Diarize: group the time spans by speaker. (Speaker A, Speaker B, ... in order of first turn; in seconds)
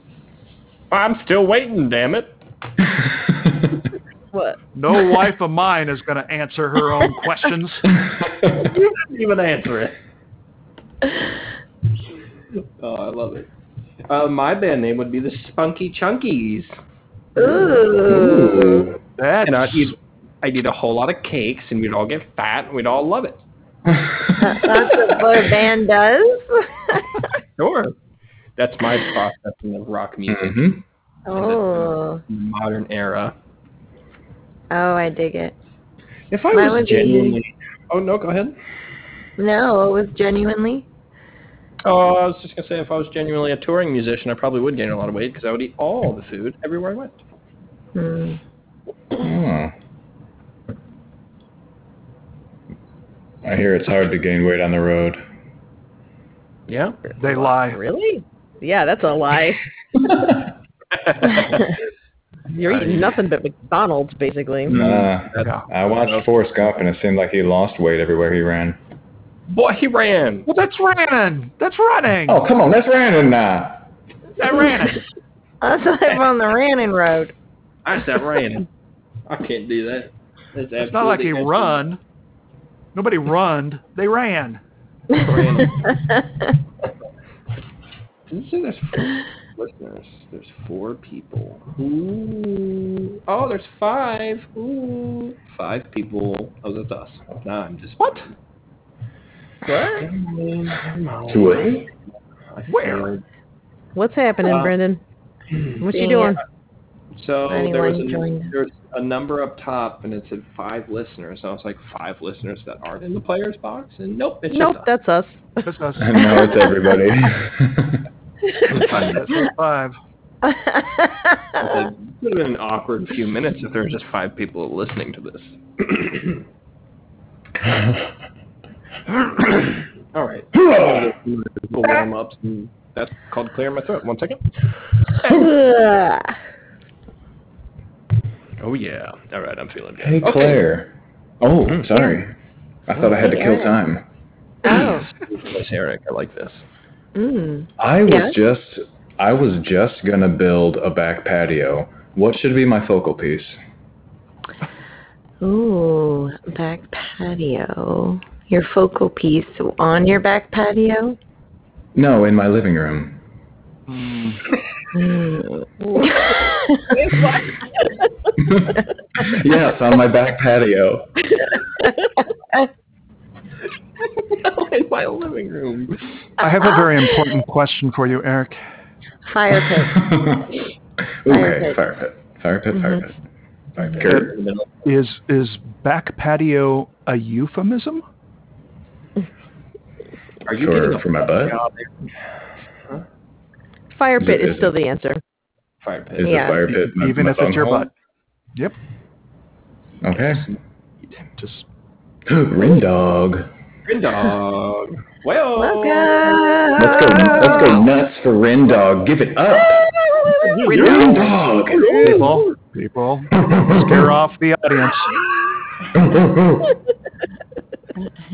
Speaker A: 0.9-2.3, 8.4-10.0, 12.8-13.5, 14.1-16.8, 19.4-23.4, 27.6-27.9, 28.6-30.8, 31.3-33.3, 36.3-38.5, 41.8-47.2, 56.7-57.0, 60.9-61.8, 62.6-63.2, 64.7-66.2, 69.5-70.5, 77.8-78.7, 79.3-81.8, 85.2-85.8, 88.3-98.3, 99.7-101.9, 102.5-103.2, 104.4-104.7, 107.1-114.9, 118.7-119.2, 121.6-126.4, 129.1-134.4, 138.6-140.7, 141.7-141.9, 144.6-146.6, 174.0-176.3, 183.8-184.8, 190.4-192.1, 195.8-196.6, 203.8-206.4, 210.4-212.5
Speaker B: 3.3-3.6, 8.2-8.5, 18.0-19.0, 23.9-24.9, 30.3-30.8, 49.2-49.7, 53.4-55.2, 64.7-68.8, 72.3-73.9, 101.3-101.9, 116.0-118.0, 140.0-142.3, 142.9-144.0, 147.8-153.6, 161.9-163.2, 168.4-171.1, 179.8-180.6, 181.2-183.2, 183.8-184.3, 190.6-191.6, 194.2-194.8, 196.2-197.9, 200.0-200.4, 202.2-203.5, 206.8-209.9, 210.8-212.2, 213.4-214.1, 215.9-216.8
Speaker C: 4.7-7.9, 19.2-19.9, 57.2-57.8, 65.4-65.7, 70.5-72.4, 74.4-75.0, 80.8-82.0, 82.9-84.6, 85.2-85.7, 102.7-103.1, 115.6-116.5, 118.7-120.0, 163.9-164.4, 176.4-178.6, 184.0-188.0, 196.7-197.9, 201.1-201.7, 210.6-215.2
Speaker D: 17.4-18.9, 24.4-27.3, 31.3-32.2, 34.7-35.5, 36.5-37.4, 39.4-40.9, 47.9-48.4, 75.6-77.3, 85.8-86.4, 105.9-106.4, 107.5-108.5, 116.2-116.6, 120.5-121.7, 135.2-136.3, 143.1-143.7, 144.6-145.1, 147.2-148.3, 155.4-161.2, 164.9-166.9, 177.0-177.3, 179.2-180.2, 181.3-181.8, 196.2-196.6, 205.6-207.8
Speaker E: 57.1-59.7, 62.5-64.8, 99.7-100.1, 103.9-105.0, 105.8-106.4, 114.5-115.7, 165.8-167.9, 193.9-195.2